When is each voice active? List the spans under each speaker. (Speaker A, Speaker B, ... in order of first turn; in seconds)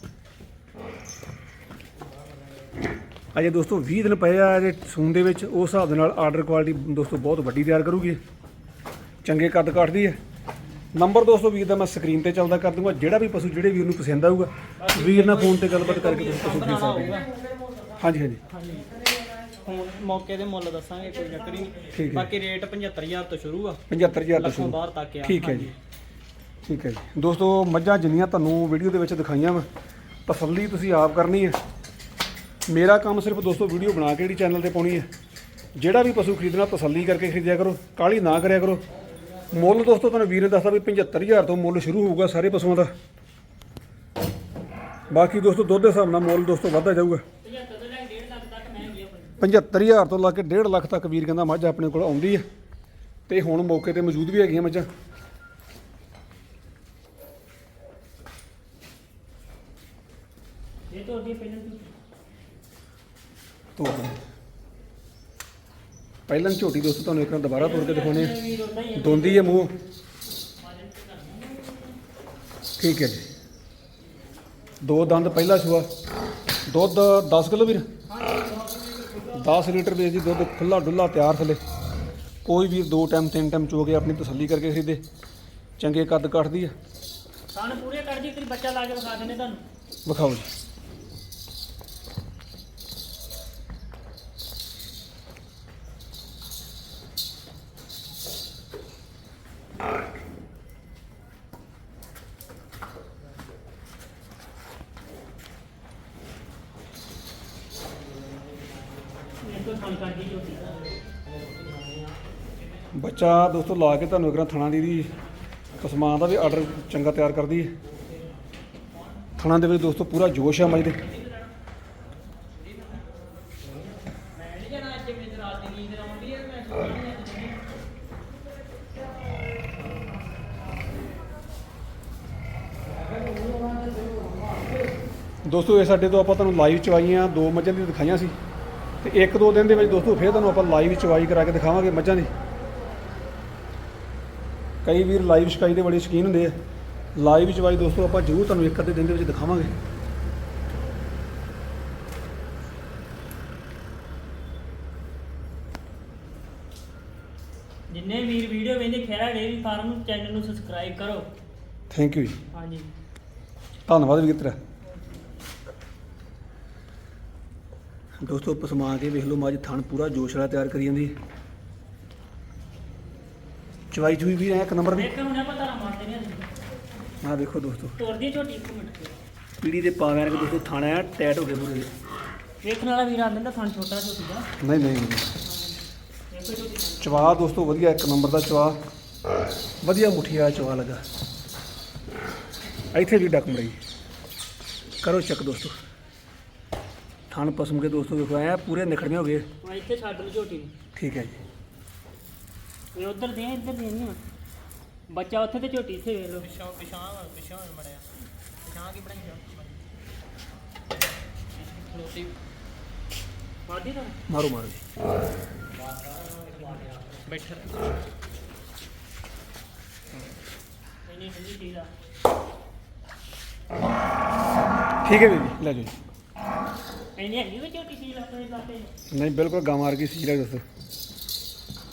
Speaker A: 3.3-8.2, 9.2-10.2, 10.9-17.2, 18.0-18.4, 21.9-22.3, 23.9-25.7, 26.6-29.7, 30.3-31.6, 32.7-35.1, 35.8-38.8, 39.5-42.9, 45.1-47.2, 49.4-52.5, 53.3-54.9, 63.8-64.2, 66.3-68.4, 69.0-69.7, 72.8-73.2, 74.8-75.9, 76.7-77.9, 79.3-81.6, 82.5-85.0, 85.8-86.7, 90.1-90.5, 112.9-115.1, 115.8-117.7, 119.4-121.0, 135.4-138.4, 139.0-142.3, 144.8-146.6, 147.2-149.7, 161.9-162.4, 163.9-164.6, 168.2-171.1, 173.9-175.1, 177.2-178.0, 179.6-181.9, 184.6-185.3, 187.0-188.8, 189.8-191.0, 192.9-193.8, 195.0-195.8, 197.3-199.5, 200.9-201.4, 214.3-214.8, 225.0-225.9, 229.1-230.6
Speaker B: 14.8-17.3, 18.5-18.9, 19.6-25.7, 78.2-79.4, 124.3-127.6, 206.4-208.1, 208.7-209.6, 211.6-212.3, 216.5-217.9
Speaker C: 47.4-49.4, 60.9-61.9, 67.5-69.7, 70.6-72.0, 87.5-89.6, 109.4-110.8, 157.9-161.3, 162.5-162.9, 174.9-176.5, 178.0-179.1, 182.6-184.5, 185.5-185.8, 186.3-187.3, 199.6-200.7, 202.9-204.2, 205.1-206.5, 213.7-214.2, 221.1-221.9, 227.2-228.9